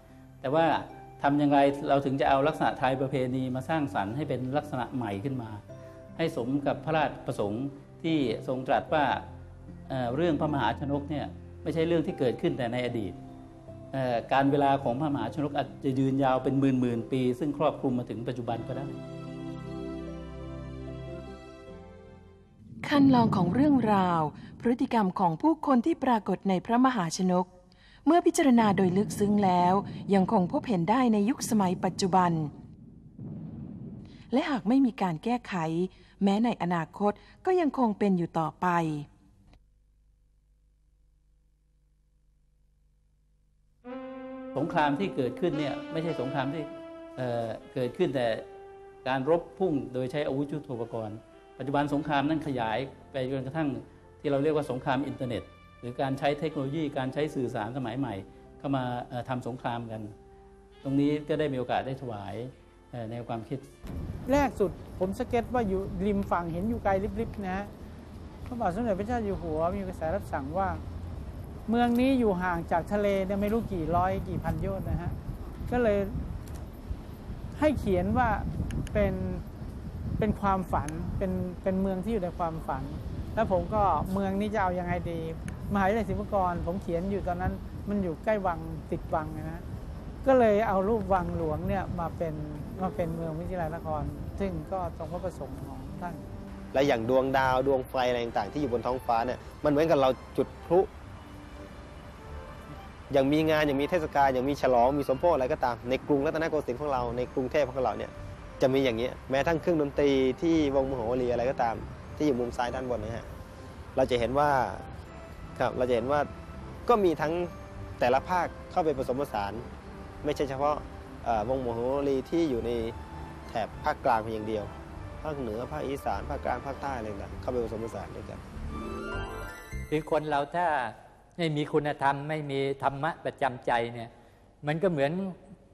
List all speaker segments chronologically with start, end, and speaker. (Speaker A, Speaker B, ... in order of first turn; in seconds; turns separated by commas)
Speaker A: 0.4-5.6, Speaker A: 6.2-9.2, Speaker A: 9.9-13.2, Speaker A: 13.9-19.0, Speaker B: 22.8-27.5, Speaker B: 28.0-32.5, Speaker B: 34.3-39.1, Speaker A: 44.5-48.4, Speaker A: 49.0-60.1, Speaker A: 60.8-63.6, Speaker C: 64.2-67.7, Speaker C: 68.5-70.8, Speaker C: 71.7-75.1, Speaker C: 75.7-76.2, Speaker C: 77.5-79.4, Speaker C: 80.2-89.6, Speaker C: 90.2-96.2, Speaker D: 96.7-100.9, Speaker D: 103.1-113.3, Speaker D: 114.0-114.8, Speaker D: 115.6-116.3, Speaker D: 116.8-119.7, Speaker D: 120.2-122.9, Speaker D: 123.5-124.7, Speaker D: 125.2-128.4, Speaker E: 129.9-134.1, Speaker E: 134.6-135.3